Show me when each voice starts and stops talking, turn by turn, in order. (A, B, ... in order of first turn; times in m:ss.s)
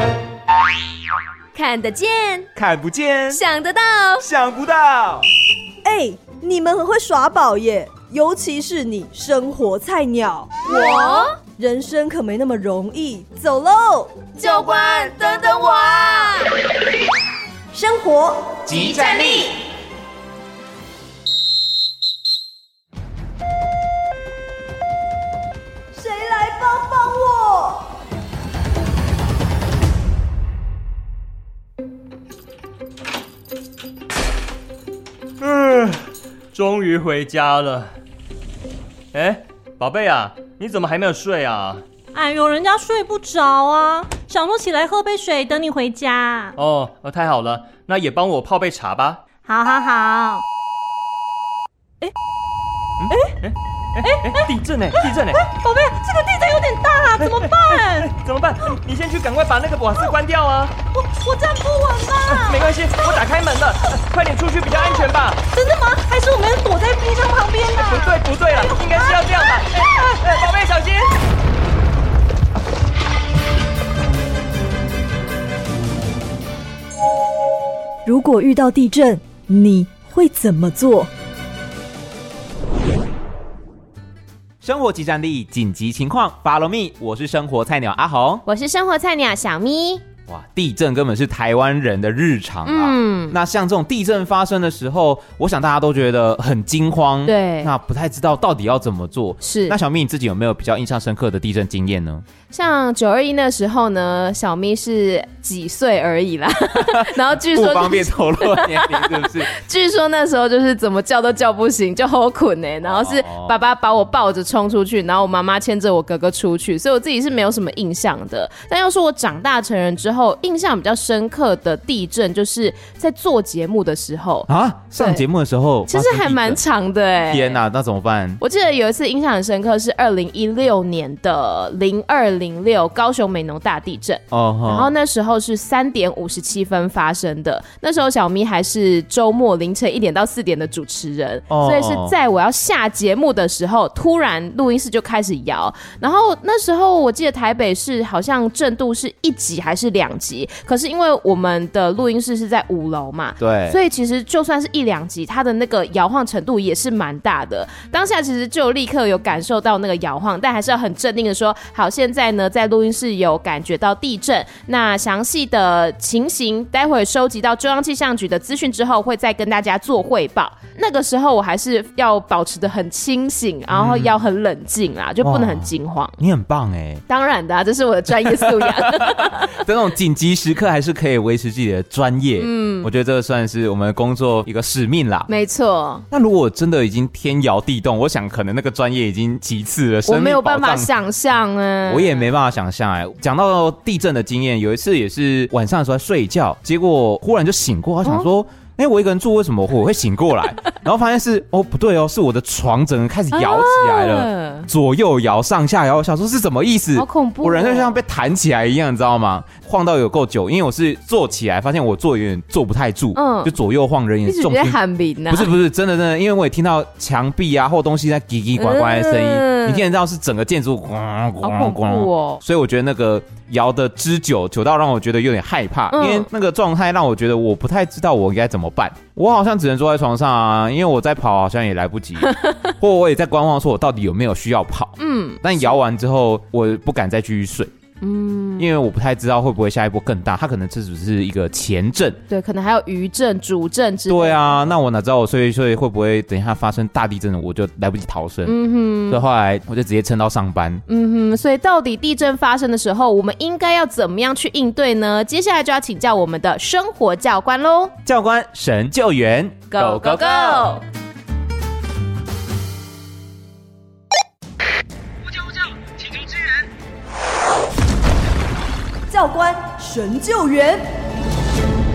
0:01.5-0:02.5 A
0:02.6-0:03.4 B
0:03.3-0:04.3 A
0:04.2-0:05.3 B
0:05.8-0:16.3 C
0:10.7-0:11.3 A
0:14.4-0:16.4 A
0:14.8-0:15.0 B
0:17.7-0:19.4 C
0:18.7-0:19.5 B
0:25.9-0:27.9 C
0:35.4-0:37.9 D
0:39.1-0:41.8 D
0:42.1-0:46.6 E
0:46.6-0:49.2 D
0:49.4-0:50.4 E
0:53.0-0:55.4 D
0:53.1-0:53.4 E
0:54.0-0:58.1 E
0:57.2-1:00.7 D
1:00.9-1:03.2 E
1:02.2-1:05.4 D
1:04.7-1:10.4 E
1:07.7-1:11.1 D
1:18.0-1:21.1 C
1:24.6-1:28.4 B
1:28.5-1:30.0 A
1:30.3-1:42.2 B
1:32.7-1:33.4 A
1:37.3-1:37.7 A
1:39.4-1:39.8 A
1:42.5-2:05.2 A
1:46.7-1:49.5 B
1:52.8-1:53.6 B
2:04.5-2:06.6 B
2:05.9-2:07.6 A
2:07.2-2:08.4 B
2:08.4-2:56.2 A
2:14.3-2:14.9 B
2:21.5-2:22.1 B
2:33.4-2:33.8 B
2:53.7-2:54.2 B
2:55.2-2:57.0 B
2:57.1-2:59.5 A
2:58.1-3:05.3 B
3:02.4-3:02.9 A
3:05.3-3:06.1 A
3:06.1-3:10.9 B
3:10.1-3:12.3 A
3:11.9-3:34.8 B
3:23.3-3:24.7 A
3:27.0-3:28.0 A
3:33.2-3:33.5 A
3:34.2-3:35.5 A
3:35.3-3:57.7 B
3:38.6-3:39.8 A
3:41.4-3:42.4 A
3:45.9-3:46.3 A
3:52.2-3:52.7 A
3:55.0-3:55.8 A
3:58.0-3:58.7 A
3:58.6-4:02.2 B
4:02.3-4:04.6 A
4:04.1-4:10.8 B
4:08.4-4:09.2 A
4:10.9-4:17.9 A
4:18.0-4:20.7 B
4:19.7-4:20.8 A
4:29.1-4:30.8 C